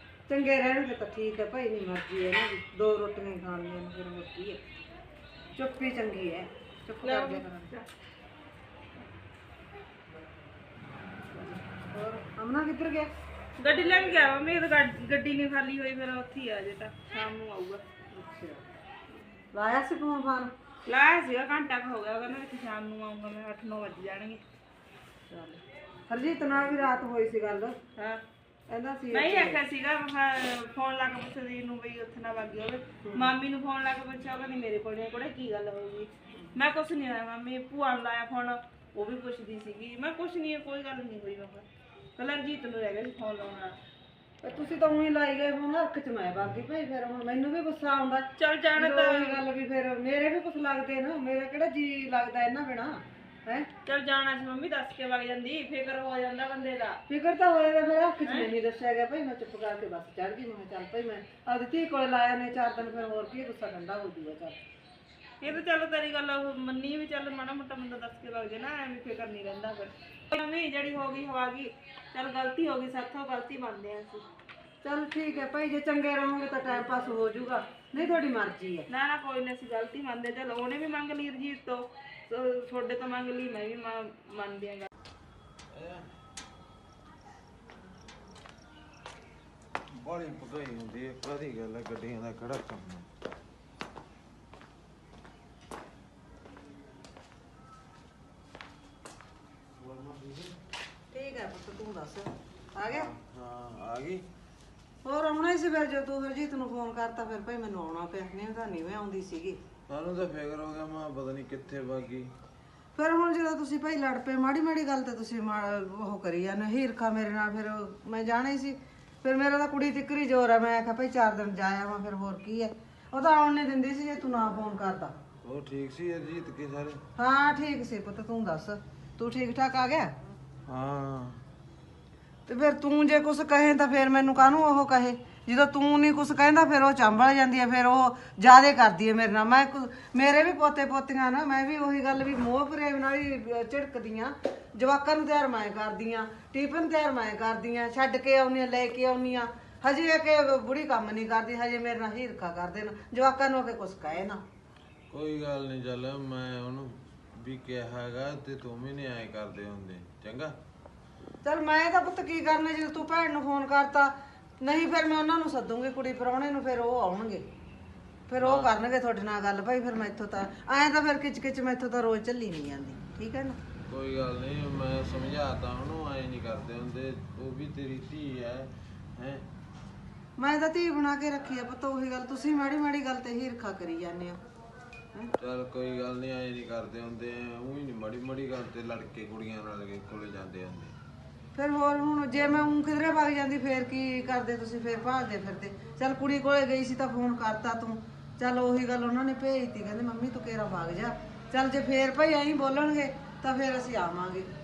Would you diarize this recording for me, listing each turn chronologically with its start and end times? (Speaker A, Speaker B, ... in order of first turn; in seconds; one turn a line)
Speaker A: 0.3-4.6
Speaker A: 5.5-7.7
Speaker B: 7.0-7.9
Speaker A: 11.4-13.1
Speaker B: 13.6-17.8
Speaker A: 18.1-18.6
Speaker A: 19.5-20.5
Speaker B: 20.8-24.4
Speaker A: 25.3-27.8
Speaker B: 28.0-28.2
Speaker A: 28.7-29.6
Speaker B: 29.1-41.6
Speaker A: 33.0-33.3
Speaker B: 42.2-43.8
Speaker A: 44.4-53.7
Speaker B: 48.4-49.4
Speaker B: 53.9-57.0
Speaker A: 57.1-64.6
Speaker B: 65.4-74.2
Speaker A: 74.8-78.9
Speaker B: 78.9-84.9
Speaker C: 85.7-86.1
Speaker C: 89.9-93.1
Speaker C: 99.8-100.6
Speaker A: 101.1-103.1
Speaker C: 102.9-104.2
Speaker A: 105.0-109.6
Speaker C: 109.9-112.3
Speaker A: 113.0-125.1
Speaker C: 125.4-127.0
Speaker A: 127.2-130.1
Speaker C: 130.7-131.4
Speaker A: 132.5-154.4
Speaker C: 155.1-160.5
Speaker A: 161.4-167.4
Speaker A: 168.3-173.6
Speaker C: 168.4-168.7
Speaker C: 173.9-179.4
Speaker A: 180.4-184.4
Speaker C: 185.4-190.9
Speaker A: 191.5-204.5